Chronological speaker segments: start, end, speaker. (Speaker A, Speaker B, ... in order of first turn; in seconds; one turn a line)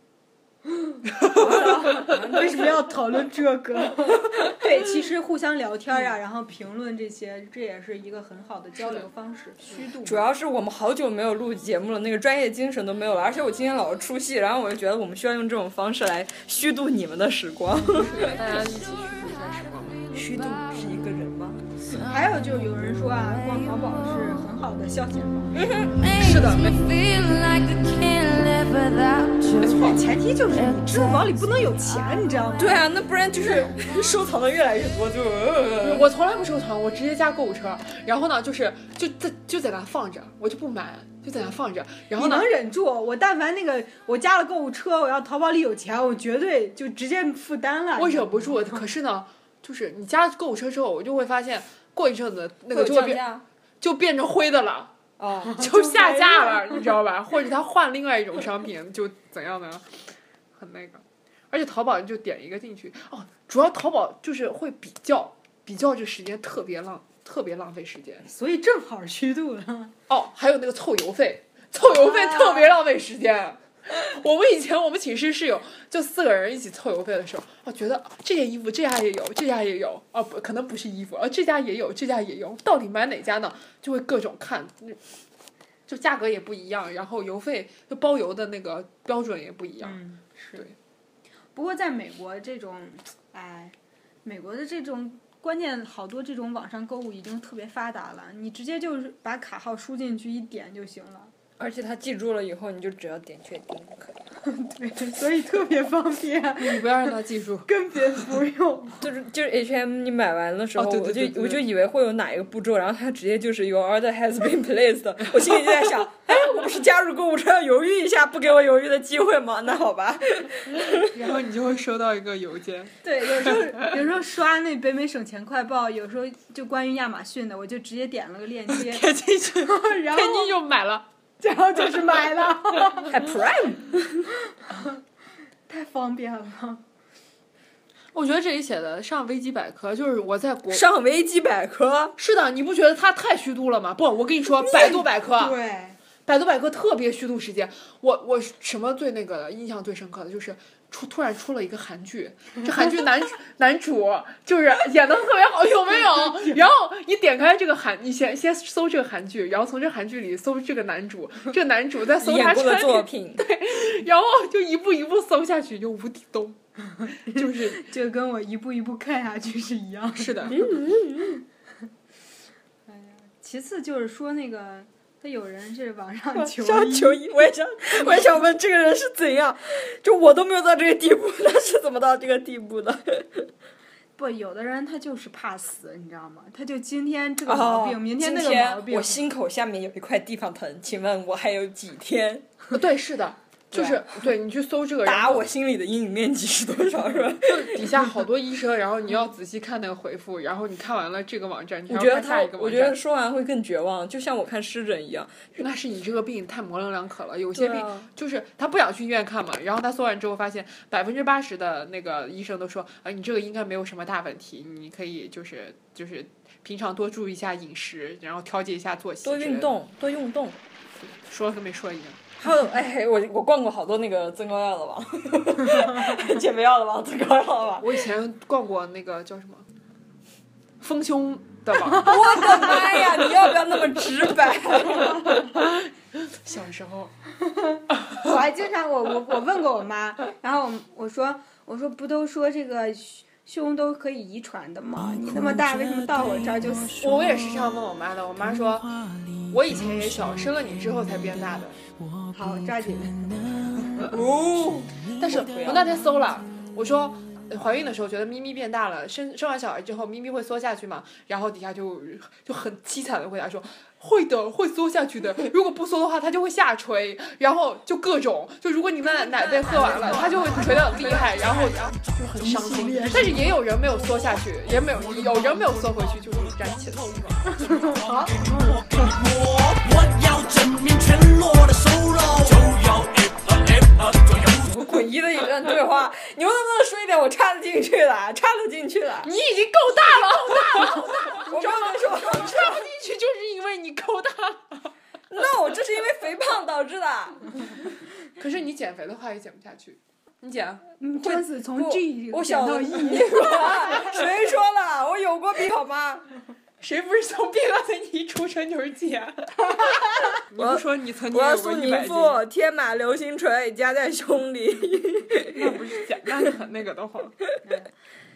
Speaker A: 0.8-10.3
Speaker B: 1.1-1.8
Speaker C: 1.3-2.9
Speaker B: 8.8-9.1
Speaker C: 10.0-18.4
Speaker B: 17.9-20.1
Speaker C: 20.1-21.6
Speaker A: 21.9-25.6
Speaker C: 25.5-26.1
Speaker B: 26.1-27.0
Speaker C: 27.9-28.6
Speaker B: 29.6-30.0
Speaker A: 29.6-32.7
Speaker C: 32.6-36.1
Speaker B: 35.8-42.5
Speaker A: 42.1-48.8
Speaker B: 48.0-53.2
Speaker C: 52.7-53.4
Speaker B: 53.8-54.9
Speaker C: 55.2-56.8
Speaker B: 55.5-60.0
Speaker B: 60.5-68.3
Speaker A: 68.2-69.9
Speaker B: 70.1-85.0
Speaker B: 85.9-90.0
Speaker A: 89.8-90.6
Speaker A: 91.5-101.3
Speaker C: 101.6-104.3
Speaker A: 104.5-107.1
Speaker B: 106.6-107.7
Speaker A: 107.7-109.0
Speaker C: 109.0-121.1
Speaker B: 110.8-111.6
Speaker B: 121.1-123.9
Speaker A: 123.0-130.5
Speaker B: 128.7-131.1
Speaker A: 131.4-133.2
Speaker C: 133.1-134.3
Speaker A: 134.5-134.9
Speaker A: 135.7-136.8
Speaker B: 138.1-140.8
Speaker C: 140.7-142.2
Speaker B: 142.2-145.5
Speaker A: 144.5-146.0
Speaker B: 146.2-166.6
Speaker C: 162.2-163.4
Speaker B: 167.2-167.8
Speaker A: 167.3-170.6
Speaker B: 170.2-170.6
Speaker C: 170.5-171.4
Speaker A: 172.9-177.2
Speaker C: 176.3-183.5
Speaker A: 184.2-189.2
Speaker C: 187.4-192.5
Speaker B: 192.7-195.5
Speaker C: 193.7-194.2
Speaker C: 195.0-198.1
Speaker B: 197.4-203.0
Speaker C: 201.9-205.5
Speaker B: 205.6-219.7
Speaker C: 207.5-208.1
Speaker C: 219.2-220.6
Speaker B: 221.0-222.2
Speaker C: 222.4-228.0
Speaker B: 227.8-229.7
Speaker B: 230.8-232.6
Speaker C: 231.9-235.2
Speaker B: 236.4-237.1
Speaker A: 237.5-247.1
Speaker B: 247.0-248.9
Speaker B: 249.5-251.8
Speaker A: 252.3-254.1
Speaker C: 254.0-255.8
Speaker B: 255.2-277.6
Speaker A: 269.0-271.7
Speaker A: 272.4-273.6
Speaker A: 277.5-279.1
Speaker C: 284.3-289.3
Speaker B: 289.2-294.9
Speaker C: 290.4-292.9
Speaker C: 295.3-297.7
Speaker B: 298.4-300.9
Speaker A: 301.0-304.3
Speaker C: 301.2-306.3
Speaker B: 306.8-309.9
Speaker B: 310.4-312.4
Speaker C: 310.5-315.7
Speaker B: 315.4-317.4